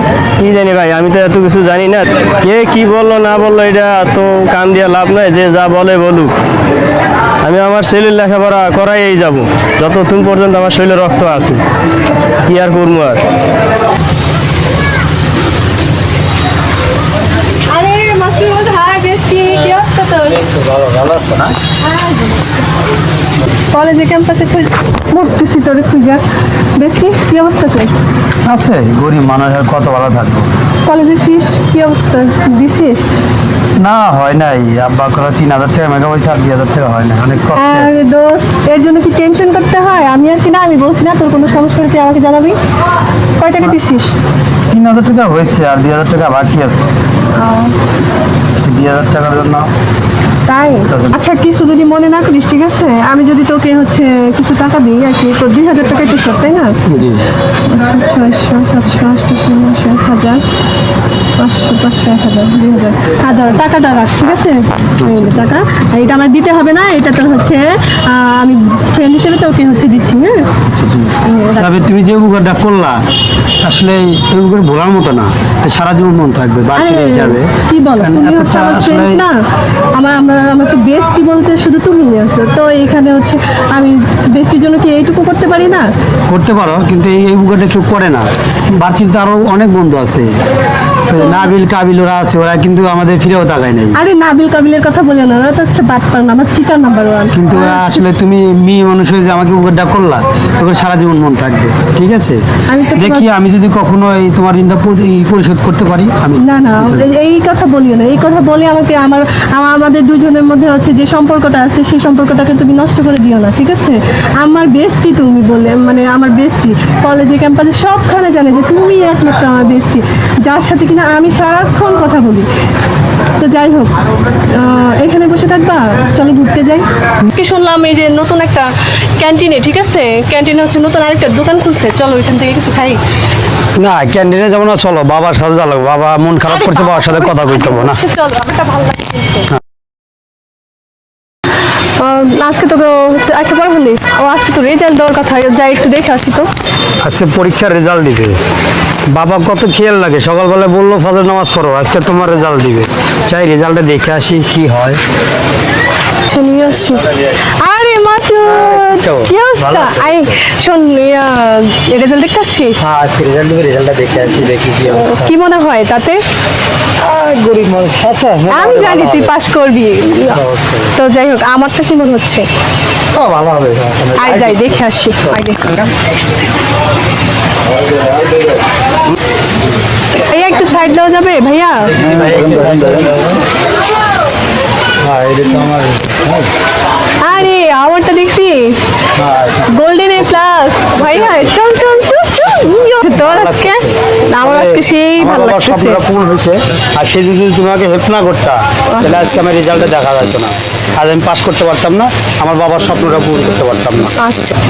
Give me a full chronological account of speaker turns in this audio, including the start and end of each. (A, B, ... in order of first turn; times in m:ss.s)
0:00.4-0:06.3 A
0:07.4-0:11.6 A
0:12.4-0:13.2 A
0:17.7-0:20.4 B
0:20.3-0:21.6 C
0:21.8-0:22.5 B
0:23.7-0:26.2 B
0:26.8-0:27.9 B
0:28.4-0:30.5 C
0:30.8-0:33.1 B
0:33.8-0:37.9 C
0:37.6-0:42.6 B
0:43.4-0:44.1 B
0:44.7-0:46.8 C
0:47.4-0:47.8 B
0:48.6-0:49.7 C
0:50.4-0:56.8 B
0:50.9-0:51.2 C
0:56.9-0:57.2 C
0:57.7-1:00.4 B
1:01.4-1:10.5 B
1:05.0-1:05.4 C
1:10.6-1:13.0 C
1:11.2-1:11.8 B
1:13.6-1:19.2 C
1:16.7-1:19.4 B
1:19.9-1:25.9 B
1:26.3-1:30.3 C
1:31.1-1:34.0 C
1:31.2-1:31.5 B
1:33.9-1:38.0 B
1:37.3-1:42.4 C
1:42.7-1:43.3 B
1:42.9-1:47.1 C
1:46.4-2:02.5 B
2:03.4-2:03.9 B
2:04.5-2:08.7 B
2:09.2-2:13.0 B
2:13.8-2:18.0 C
2:16.5-2:19.5 B
2:22.0-2:26.5 B
2:27.0-2:28.4 C
2:29.1-2:35.0 C
2:36.3-2:42.8 B
2:38.4-2:40.4 C
2:42.8-2:45.4 C
2:44.9-2:46.2 B
2:47.0-2:49.4 C
2:48.5-2:50.4 B
2:50.2-2:51.0 C
2:50.9-2:52.4 B
2:53.1-2:55.4 C
2:54.2-2:55.6 B
3:00.3-3:01.9 B
3:01.9-3:03.4 C
3:05.0-3:06.5 C
3:07.2-3:08.8 B
3:09.2-3:09.7 C
3:09.7-3:16.0 B
3:11.0-3:11.4 C
3:13.1-3:24.1 C
3:18.9-3:19.3 B
3:24.2-3:24.5 B